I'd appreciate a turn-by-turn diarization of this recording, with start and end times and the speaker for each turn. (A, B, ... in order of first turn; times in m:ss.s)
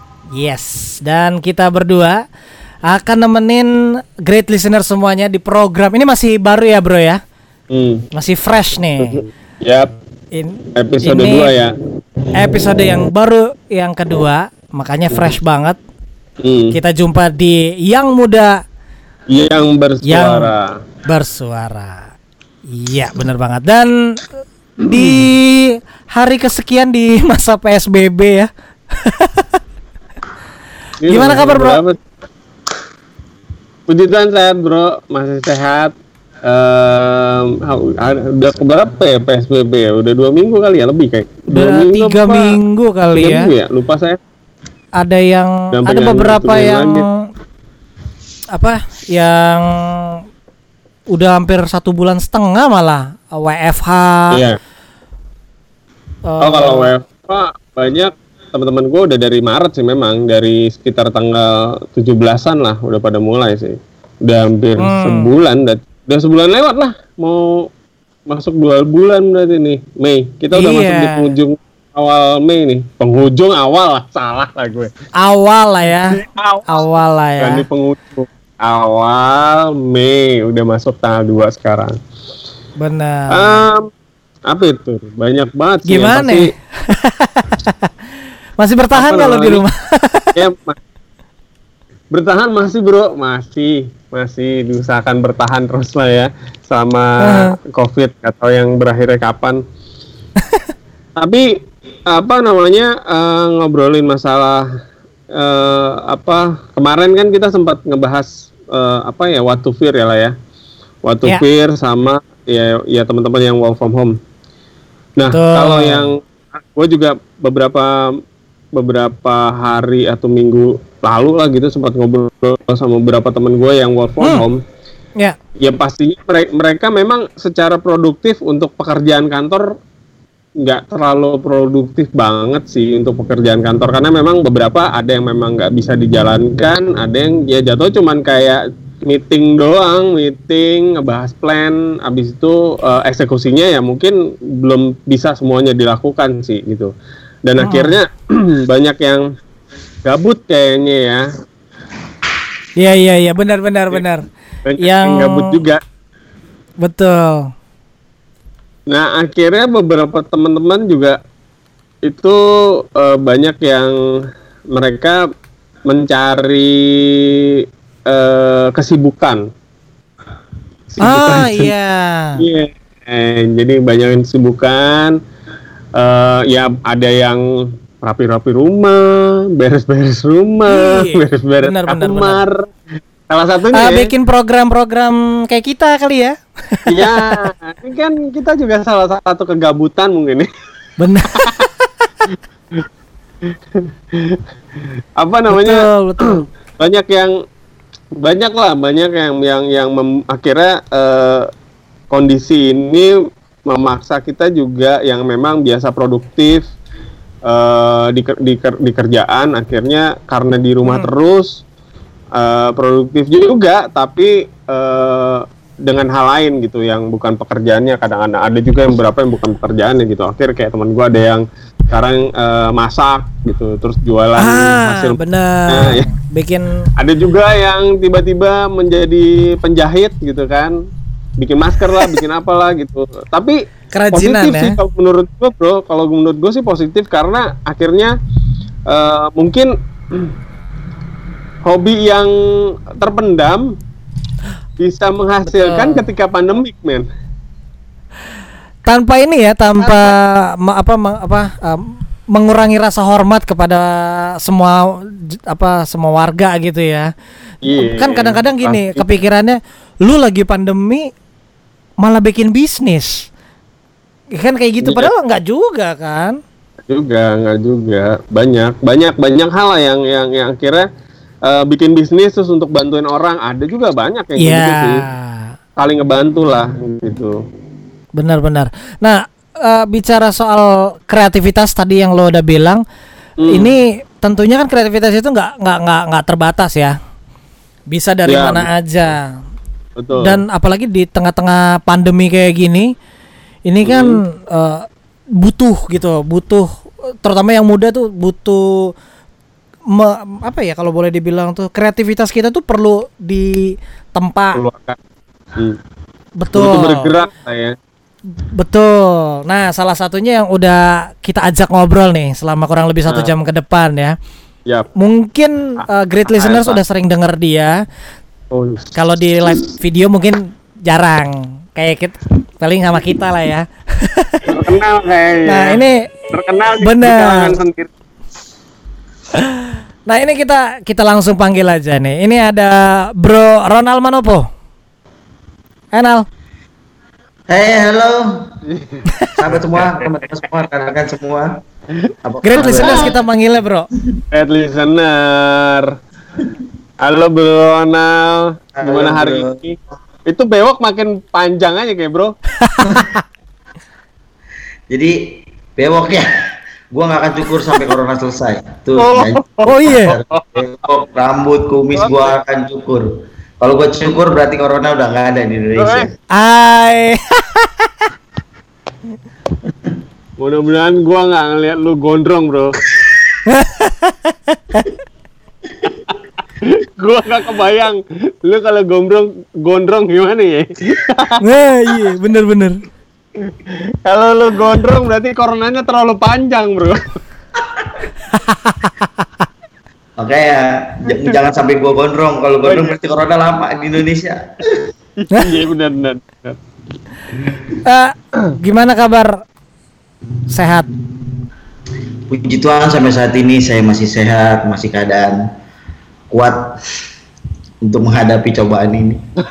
0:00.4-0:02.2 A
0:02.9-0:03.7 A
0:04.2-0:07.2 A
0:07.7-0:08.0 B
0:08.1-0:09.2 A
0:09.0-0:09.9 B
0:10.3-0:11.5 A
0:10.7-0:11.8 B
0:12.3-0:15.8 A
0:16.4-0:16.8 B
0:16.7-0:18.6 A
0:19.3-0:20.7 B
0:20.0-0:20.5 A
0:21.1-0:22.0 A
0:22.7-0:23.9 A
0:24.8-0:29.5 A
0:31.0-0:32.0 B
0:31.1-0:31.8 A
0:33.9-0:35.9 B
0:36.4-0:42.6 B
0:41.5-0:43.5 A
0:43.1-0:44.2 B
0:45.0-0:47.1 A
0:45.7-0:47.0 B
0:48.5-0:50.2 A
0:51.1-0:54.4 A
0:54.3-0:54.6 B
0:56.3-0:56.9 A
0:56.4-1:07.7 B
1:04.8-1:05.3 A
1:08.3-1:14.9 B
1:10.5-1:11.3 A
1:15.2-1:17.6 A
1:16.1-1:16.8 B
1:17.4-1:22.0 B
1:22.8-1:23.6 A
1:23.3-1:23.9 B
1:24.5-1:26.5 B
1:25.9-1:27.7 A
1:28.6-1:30.3 A
1:28.9-1:29.6 B
1:30.4-1:30.8 B
1:32.1-1:39.6 B
1:37.2-1:37.6 A
1:41.2-1:41.4 B
1:42.1-1:44.6 B
1:45.3-1:50.3 B
1:51.0-1:54.1 B
1:55.2-1:58.2 B
1:55.3-1:56.1 A
1:58.8-2:04.6 B
2:05.6-2:09.6 B
2:10.6-2:26.9 B
2:27.4-2:29.2 B
2:27.6-2:28.0 A
2:30.0-2:31.3 B
2:32.8-2:34.2 A
2:34.6-2:35.8 B
2:34.8-2:35.6 A
2:36.8-2:37.5 A
2:38.9-2:41.2 B
2:42.0-2:42.4 B
2:42.9-2:44.0 B
2:44.7-2:45.2 B
2:45.8-2:47.5 B
2:48.1-2:49.4 B
2:50.9-2:51.7 B
2:51.0-2:52.4 A
2:52.4-2:55.2 B
2:56.0-2:57.4 B
2:58.0-3:02.8 B
3:00.7-3:02.4 A
3:03.3-3:04.1 B
3:03.7-3:07.4 A
3:06.9-3:10.5 B
3:11.0-3:11.7 A
3:11.3-3:11.6 B
3:13.5-3:17.3 B
3:15.5-3:16.4 A
3:18.2-3:21.5 B
3:22.1-3:23.1 B
3:23.7-3:26.6 B
3:27.4-3:31.6 B
3:30.8-3:31.1 A
3:32.4-3:46.1 B
3:44.4-3:46.9 A
3:47.0-3:50.7 B
3:51.4-3:53.6 B
3:53.9-3:54.8 A
3:54.1-3:58.1 B
3:58.9-4:00.3 B
4:01.6-4:02.3 B
4:03.0-4:03.7 B
4:04.8-4:07.0 B
4:05.5-4:06.1 A
4:08.8-4:17.1 A
4:09.8-4:10.1 B
4:17.6-4:19.1 B
4:17.8-4:21.1 A
4:22.0-4:23.3 A
4:24.4-4:26.4 A
4:24.8-4:25.1 B
4:26.9-4:30.9 B
4:31.4-4:35.0 B
4:34.4-4:35.5 A
4:35.8-4:37.4 B
4:38.2-4:42.8 A
4:43.4-4:43.7 B
4:43.5-4:46.9 A
4:47.9-4:49.2 A
4:48.3-4:48.7 B
4:50.0-4:50.4 B
4:50.2-4:52.9 A
4:53.7-4:54.8 A
4:53.8-4:54.1 B
4:55.4-4:56.7 A
4:57.2-4:58.9 A
4:59.9-5:04.6 A
5:04.6-5:05.0 B
5:06.4-5:07.1 A
5:06.5-5:07.8 B
5:08.5-5:14.2 A
5:15.0-5:17.8 A
5:16.3-5:16.8 B
5:18.5-5:18.9 B
5:18.9-5:24.5 A
5:24.5-5:27.9 B
5:25.5-5:27.5 A
5:29.6-5:34.5 A
5:35.9-5:36.2 A
5:37.5-5:38.5 C
5:38.7-5:39.0 B
5:39.4-5:41.6 C
5:39.6-5:40.1 B
5:42.0-5:43.1 B
5:42.2-5:43.2 C
5:42.4-5:43.9 A
5:44.3-5:45.9 B
5:47.0-5:52.3 B
5:48.8-5:49.6 C
5:52.6-5:53.2 A
5:54.9-5:56.3 C
5:56.9-6:03.1 C
5:59.0-6:00.4 B
5:59.7-6:00.1 A
6:02.0-6:02.3 B
6:03.6-6:06.1 C
6:05.8-6:06.1 B
6:06.4-6:07.9 A
6:10.4-6:12.8 B
6:13.5-6:14.9 A
6:16.6-6:21.4 B
6:21.4-6:22.8 A
6:23.4-6:27.2 B
6:27.6-6:28.0 C
6:28.5-6:28.9 A
6:30.2-6:34.7 C
6:31.1-6:31.4 B
6:32.6-6:33.0 B
6:35.2-6:36.6 B
6:37.3-6:37.6 B
6:37.8-6:39.4 A
6:40.5-6:40.9 A
6:42.3-6:45.5 C
6:46.3-6:46.8 C
6:47.8-6:49.3 C